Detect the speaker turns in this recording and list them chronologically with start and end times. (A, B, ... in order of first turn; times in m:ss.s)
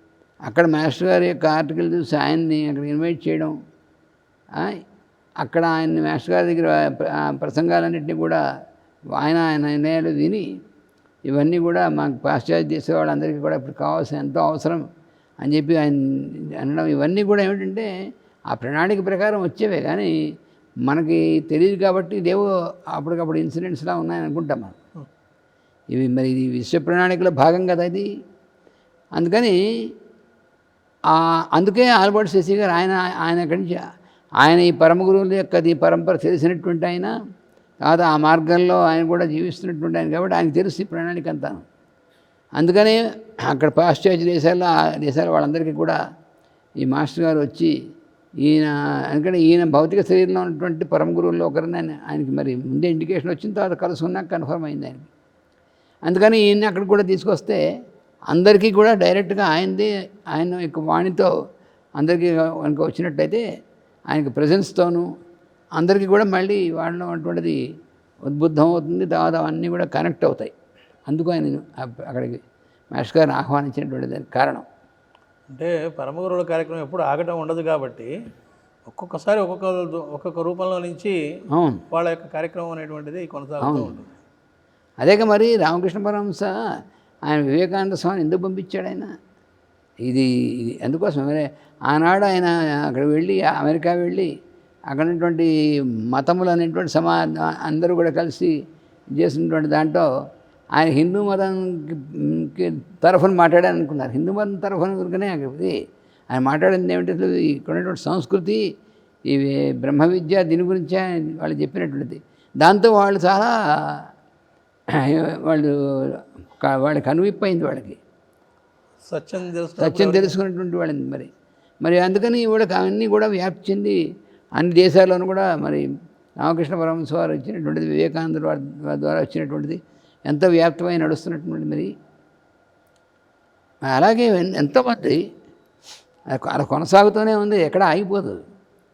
0:00.5-0:03.6 A
0:05.4-0:08.4 A
0:09.2-0:10.4 A
0:11.3-0:14.8 A
0:15.4-0:17.9 A
0:18.5-0:20.1 A
0:20.8-0:24.8 A
0:25.9-0:28.1 A
0:29.2-0:29.6 A
0:31.1-0:33.8 A
0:34.4-0:37.1 A
0:37.8-0:41.6 A
0:42.6-0:46.0 A
0:46.8-0:47.7 A
0:48.4-0:55.1 A
0:56.0-0:57.6 A
0:58.3-1:01.3 A
1:02.0-1:03.4 A
1:04.1-1:05.1 A
1:05.8-1:07.6 A
1:08.3-1:10.5 A
1:11.1-1:12.4 A
1:12.9-1:14.6 A
1:15.5-1:18.1 B
1:18.9-1:21.1 B
1:21.5-1:21.8 A
1:21.9-1:24.1 B
1:23.6-1:23.9 A
1:25.0-1:26.6 A
1:27.3-1:29.1 A
1:30.0-1:34.3 A
1:34.9-1:35.5 A
1:36.1-1:38.5 A
1:39.2-1:40.1 A
1:40.7-1:45.8 A
1:46.3-1:48.6 A
1:49.3-1:54.0 A
1:54.9-1:58.0 A
1:59.0-2:00.4 B
1:59.8-2:01.3 A
2:01.8-2:04.0 A
2:04.6-2:05.8 A
2:06.4-2:11.9 A
2:13.9-2:15.2 A
2:16.3-2:18.4 A